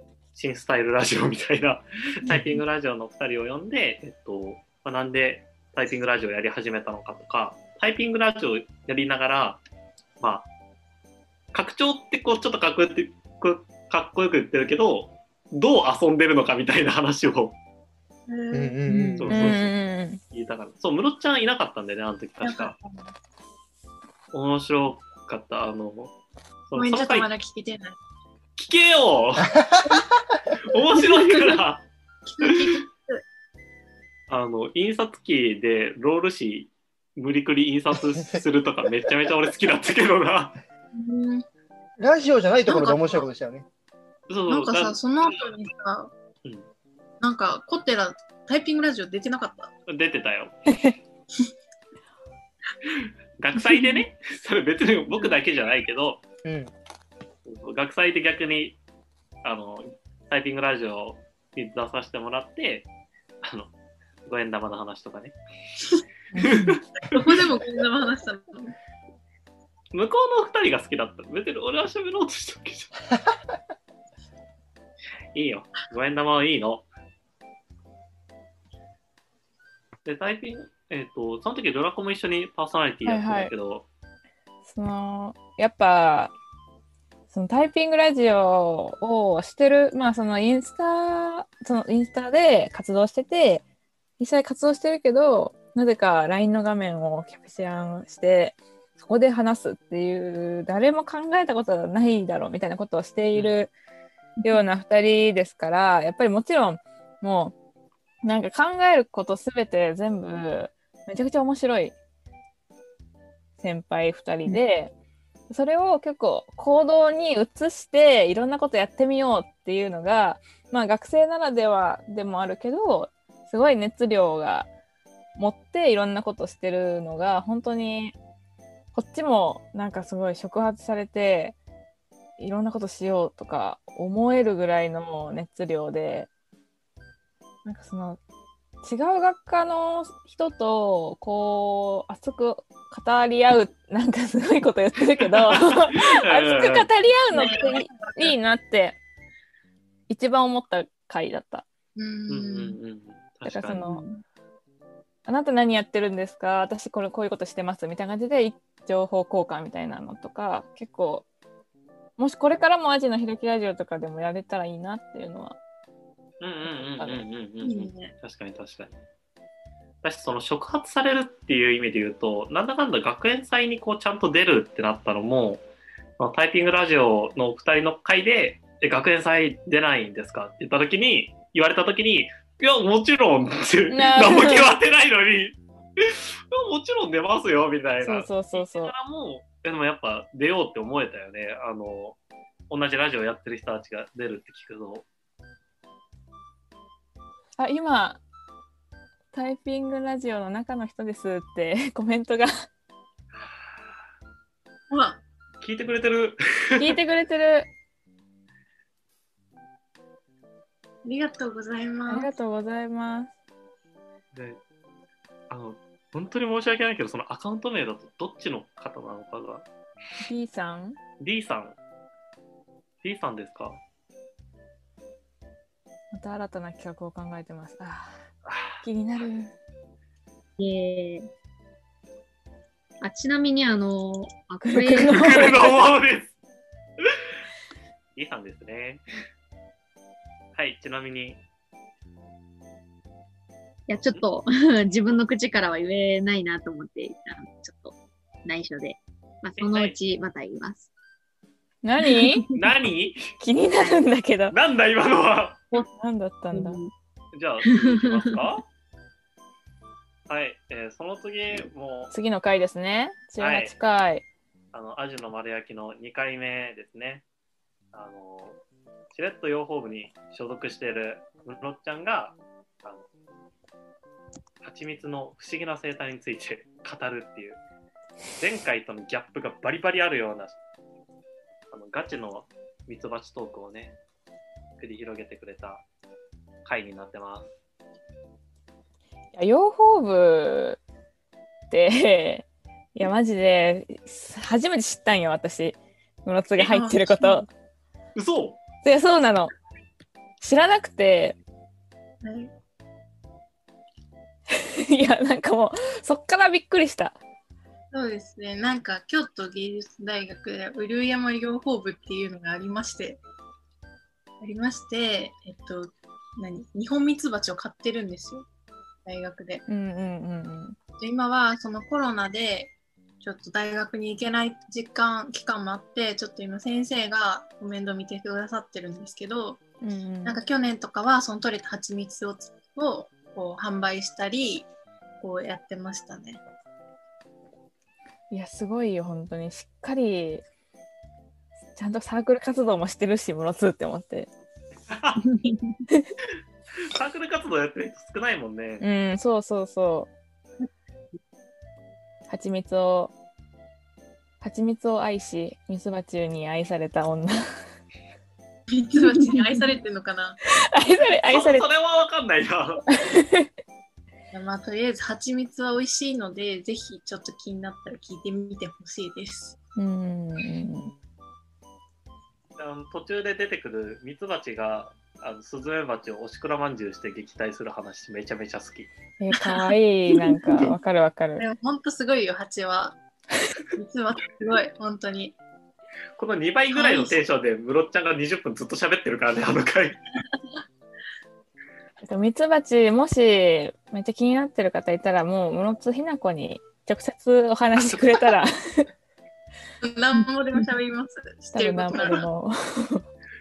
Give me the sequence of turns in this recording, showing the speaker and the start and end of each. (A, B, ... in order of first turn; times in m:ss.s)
0:00.3-0:09.6 A
0:02.3-0:02.6 B
0:10.2-0:10.5 A
0:11.5-0:17.6 A
0:18.3-0:18.8 C
0:18.5-0:19.6 B
0:18.9-0:19.3 D
0:19.2-0:19.7 A
0:19.3-0:20.2 E
0:20.3-0:22.8 A
0:22.4-0:23.1 C
0:24.3-0:26.1 A
0:26.7-0:27.3 A
0:26.8-0:28.0 C
0:28.6-0:29.6 A
0:29.5-0:30.0 B
0:30.7-0:31.9 A
0:30.7-0:31.2 C
0:32.3-0:33.2 C
0:32.4-0:32.8 A
0:34.3-0:40.6 A
0:40.9-0:41.4 C
0:42.0-0:43.7 B
0:42.7-0:43.2 C
0:44.3-0:45.0 A
0:44.5-0:46.1 C
0:47.2-0:49.7 C
0:49.9-0:50.6 A
0:52.9-0:56.2 A
0:56.4-0:56.7 B
0:57.5-0:58.8 A
0:59.4-1:02.9 A
1:03.4-1:03.7 A
1:04.3-1:05.4 A
1:06.3-1:06.8 E
1:06.4-1:07.4 A
1:07.1-1:08.8 C
1:09.9-1:13.0 A
1:15.3-1:16.8 A
1:20.0-1:23.8 A
1:23.0-1:23.5 E
1:24.7-1:26.3 E
1:27.3-1:33.6 E
1:34.2-1:43.7 E
1:44.4-1:47.6 E
1:48.2-1:52.0 E
1:53.6-1:54.9 E
1:55.5-2:04.7 E
2:05.4-2:08.2 E
2:08.9-2:11.6 E
2:12.4-2:16.3 E
2:17.6-2:18.2 E
2:18.8-2:29.0 E
2:25.4-2:26.9 A
2:27.3-2:28.4 C
2:30.1-2:31.6 E
2:32.0-2:32.8 C
2:32.3-2:33.9 A
2:33.4-2:34.0 E
2:33.8-2:34.2 D
2:35.3-2:41.2 E
2:42.2-2:45.6 E
2:46.4-2:49.0 A
2:46.6-2:47.2 E
2:47.6-2:48.1 C
2:50.0-2:55.6 A
2:56.2-3:12.2 A
3:03.9-3:04.7 E
3:08.0-3:08.9 E
3:12.7-3:15.1 A
3:17.6-3:18.2 E
3:19.3-3:22.6 E
3:24.9-3:25.2 C
3:25.6-3:27.0 A
3:26.8-3:27.7 E
3:31.0-3:32.3 C
3:32.1-3:33.3 E
3:34.3-3:34.6 A
3:35.5-3:39.7 A
3:40.2-3:41.0 E
3:41.2-3:41.8 A
3:43.0-3:43.8 A
3:46.1-3:48.2 E
3:48.5-3:48.8 A
3:48.8-3:49.5 E
3:50.6-3:51.3 D
3:53.0-3:55.8 D
3:54.6-3:55.8 E
3:55.0-3:56.3 A
3:58.2-3:59.0 A
4:00.6-4:01.4 A
4:03.9-4:10.9 D
4:04.0-4:04.2 A
4:09.6-4:10.0 A
4:11.8-4:12.5 E
4:12.1-4:12.6 D
4:12.5-4:13.3 A
4:13.4-4:14.6 E
4:14.5-4:15.6 A
4:15.7-4:16.8 E
4:16.5-4:16.9 D
4:17.3-4:18.6 A
4:17.7-4:18.4 D
4:20.3-4:22.1 A
4:22.1-4:24.2 E
4:23.4-4:23.8 A
4:24.7-4:27.2 A
4:27.9-4:28.6 A
4:29.1-4:33.1 A
4:34.6-4:37.6 A
4:38.4-4:40.6 A
4:41.7-4:44.0 A
4:44.8-4:45.8 A
4:46.6-4:47.5 A
4:49.3-4:50.8 E
4:51.7-4:57.5 E
4:56.6-4:57.4 C
4:58.2-4:58.6 A
4:58.8-4:59.5 E
5:00.4-5:01.4 E
5:02.2-5:02.5 C
5:04.5-5:07.2 E
5:07.9-5:13.2 C
5:14.4-5:18.5 C
5:19.1-5:19.6 C
5:19.7-5:20.8 E
5:21.0-5:29.6 C
5:29.8-5:30.4 E
5:30.2-5:34.7 C
5:35.2-5:36.4 C
5:38.3-5:40.4 E
5:41.8-5:44.3 E
5:44.9-5:45.2 A
5:45.2-5:45.8 D
5:45.9-5:46.1 E
5:46.8-5:48.8 A
5:48.8-5:50.1 E
5:52.3-5:53.1 E
5:54.4-5:57.5 E
5:58.7-6:00.4 C
5:59.2-5:59.6 E
6:00.7-6:01.7 E
6:01.3-6:02.9 A
6:02.9-6:03.5 E
6:04.3-6:09.6 C
6:09.8-6:10.9 E
6:12.6-6:18.9 A
6:19.2-6:21.4 E
6:21.4-6:23.0 C
6:23.8-6:25.4 C
6:26.2-6:30.0 A
6:26.7-6:27.2 C
6:32.0-6:38.9 E
6:39.8-6:42.3 C
6:41.5-6:43.0 E